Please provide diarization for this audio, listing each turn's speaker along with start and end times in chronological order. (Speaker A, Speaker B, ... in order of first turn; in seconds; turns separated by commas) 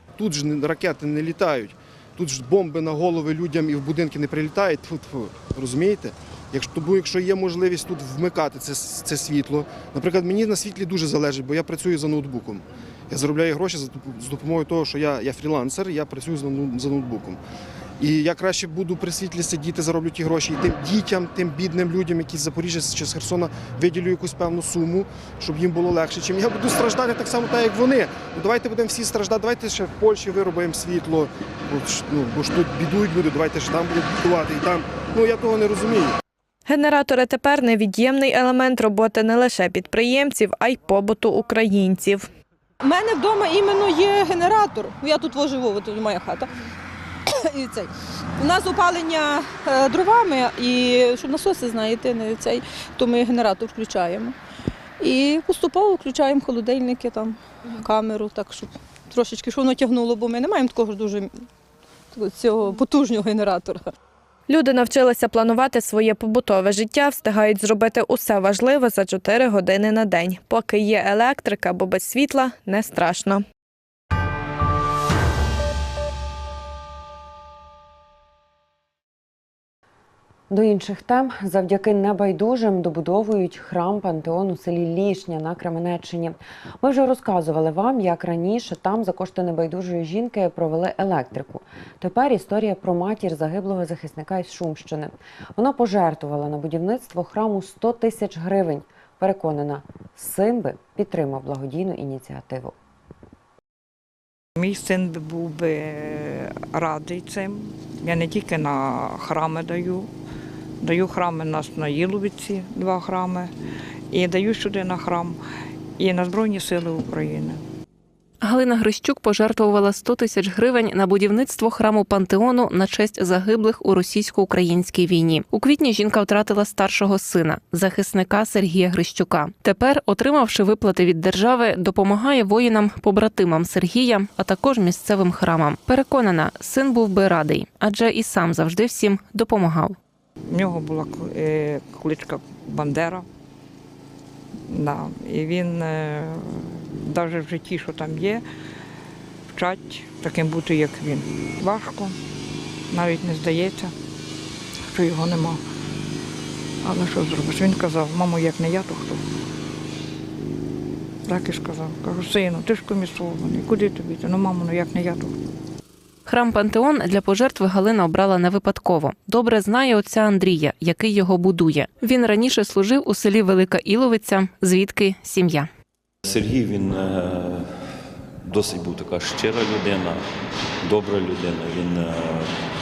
Speaker A: 0.2-17.4, Speaker A: 18.0-36.1, Speaker B: 36.6-42.3, Speaker C: 42.8-46.5, Speaker C: 47.4-54.3, Speaker C: 55.0-61.3, Speaker C: 62.1-63.9, Speaker B: 64.5-73.4, Speaker D: 80.5-102.7, Speaker E: 104.6-110.1, Speaker E: 110.8-113.5, Speaker E: 114.1-115.4, Speaker E: 116.0-117.6, Speaker F: 118.4-139.9, Speaker E: 140.5-143.2, Speaker E: 144.7-148.4, Speaker E: 149.5-152.2, Speaker E: 152.9-153.9, Speaker E: 154.9-155.6, Speaker E: 156.8-159.2, Speaker E: 161.3-165.3, Speaker F: 166.2-175.7, Speaker G: 176.2-177.7, Speaker G: 178.4-180.2, Speaker G: 180.8-182.5